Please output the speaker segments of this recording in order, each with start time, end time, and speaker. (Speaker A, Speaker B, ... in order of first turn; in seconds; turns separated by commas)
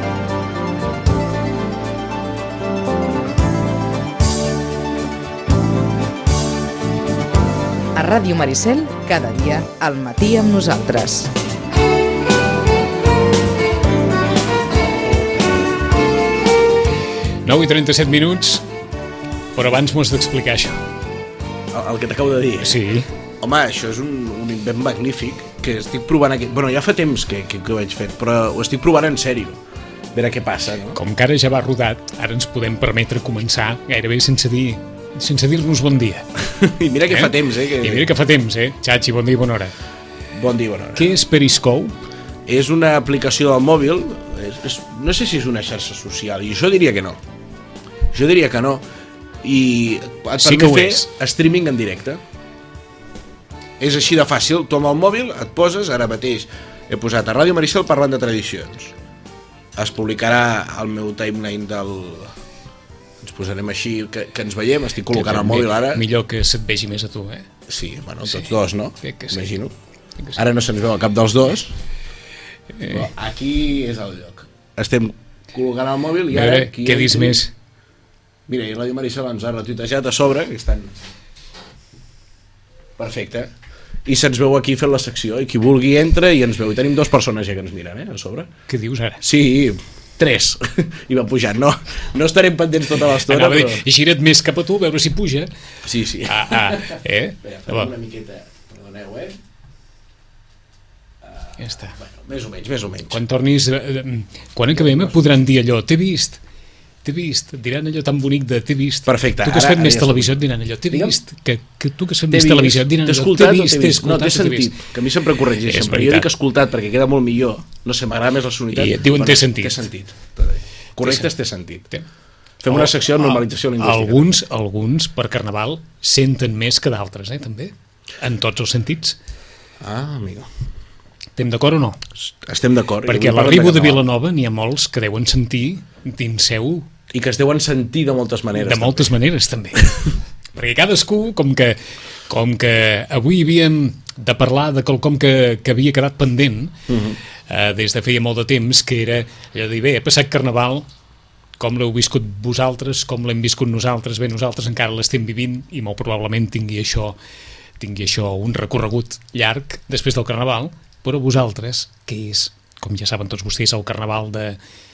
Speaker A: 8.0-11.3, Speaker B: 17.4-18.6, Speaker B: 19.6-20.8, Speaker C: 21.7-22.8, Speaker B: 22.6-23.1, Speaker C: 23.4-29.6, Speaker C: 30.1-31.0, Speaker B: 30.9-36.3, Speaker C: 36.4-38.1, Speaker B: 37.1-39.7, Speaker C: 40.3-41.1, Speaker B: 41.0-42.0, Speaker C: 42.5-47.2, Speaker C: 48.1-48.8, Speaker C: 49.4-52.2, Speaker B: 50.4-51.1, Speaker C: 53.8-58.9, Speaker C: 59.8-62.3, Speaker C: 63.2-66.0, Speaker B: 65.1-67.5, Speaker C: 67.7-69.7, Speaker B: 69.0-69.4, Speaker C: 70.3-71.7, Speaker B: 72.8-73.0, Speaker C: 72.9-77.4, Speaker B: 76.3-77.5, Speaker C: 78.5-80.9, Speaker C: 83.0-83.5, Speaker C: 84.1-88.5, Speaker B: 88.7-89.2, Speaker C: 89.2-93.8, Speaker B: 93.3-95.5, Speaker C: 95.8-99.4, Speaker B: 96.2-97.9, Speaker C: 101.2-103.2, Speaker B: 101.6-102.0, Speaker B: 103.1-106.4, Speaker C: 104.8-105.2, Speaker B: 107.0-114.7, Speaker C: 109.1-111.2, Speaker C: 112.3-121.9, Speaker B: 115.6-116.3, Speaker B: 118.7-119.8, Speaker B: 121.0-121.3, Speaker C: 122.6-124.4, Speaker B: 122.7-129.2, Speaker C: 129.8-130.5, Speaker B: 131.4-132.0, Speaker C: 132.2-134.0, Speaker B: 133.1-136.9, Speaker C: 137.1-139.2, Speaker B: 138.6-140.0, Speaker B: 140.5-146.7, Speaker C: 146.9-147.2, Speaker B: 147.5-150.9, Speaker B: 151.6-157.2, Speaker B: 157.8-164.6